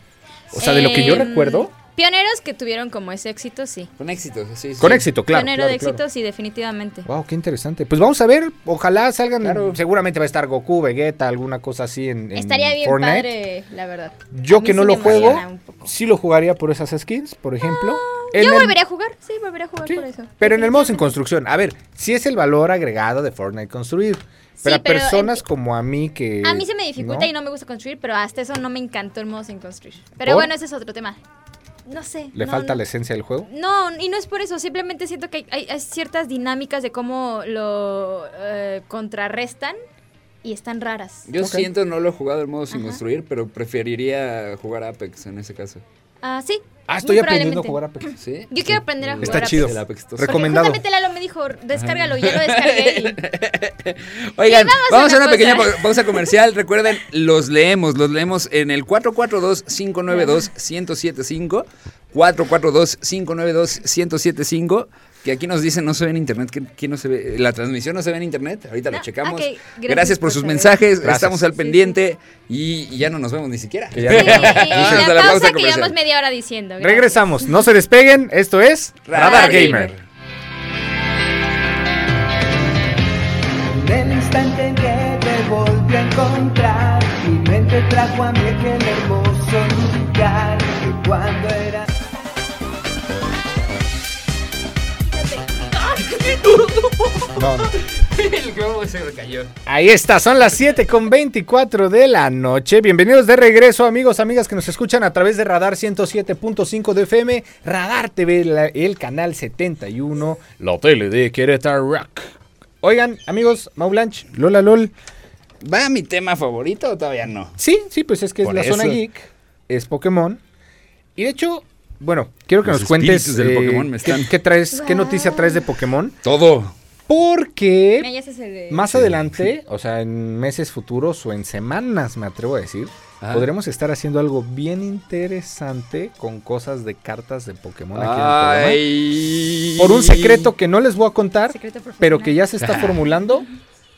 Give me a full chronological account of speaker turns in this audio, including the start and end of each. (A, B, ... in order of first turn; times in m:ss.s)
0:00.5-0:01.7 A
0:00.6-0:03.9 B
0:04.0-0:05.1 C
0:04.8-0:06.0 A
0:05.3-0:07.1 B
0:07.1-0:13.3 A
0:09.4-0:09.8 C
0:12.4-0:15.9 B
0:14.3-0:18.8 A
0:15.0-0:15.4 C
0:17.6-0:21.1 B
0:19.9-0:27.3 A
0:24.6-0:25.4 B
0:26.4-0:31.2 B
0:30.2-0:30.5 A
0:31.9-0:32.8 B
0:32.3-0:33.5 A
0:33.5-0:39.8 B
0:40.4-0:41.3 B
0:41.3-0:45.8 C
0:41.4-0:41.7 A
0:42.7-0:43.0 B
0:46.2-0:53.2 B
0:46.9-0:48.1 A
0:48.2-0:50.5 C
0:49.2-0:50.8 A
0:51.7-1:16.0 C
0:54.4-0:56.3 B
1:00.1-1:00.4 B
1:08.9-1:10.8 B
1:11.0-1:11.5 A
1:11.6-1:12.0 B
1:13.9-1:15.2 A
1:14.0-1:17.5 B
1:16.8-1:19.9 A
1:19.1-1:20.0 C
1:19.1-1:19.9 B
1:23.8-1:31.8 D
1:35.6-1:39.5 C
1:37.4-1:37.7 A
1:39.7-1:54.9 A
1:55.6-1:57.6 C
1:57.6-2:00.4 A
1:58.4-1:59.0 C
2:01.2-2:06.2 A
2:02.6-2:04.3 C
2:04.7-2:05.7 B
2:06.2-2:06.7 C
2:07.1-2:08.1 A
2:08.0-2:08.9 B
2:08.7-2:18.8 A
2:08.9-2:09.4 C
2:13.2-2:13.5 C
2:18.0-2:20.5 C
2:19.8-2:23.5 A
2:21.5-2:22.4 B
2:22.6-2:23.0 C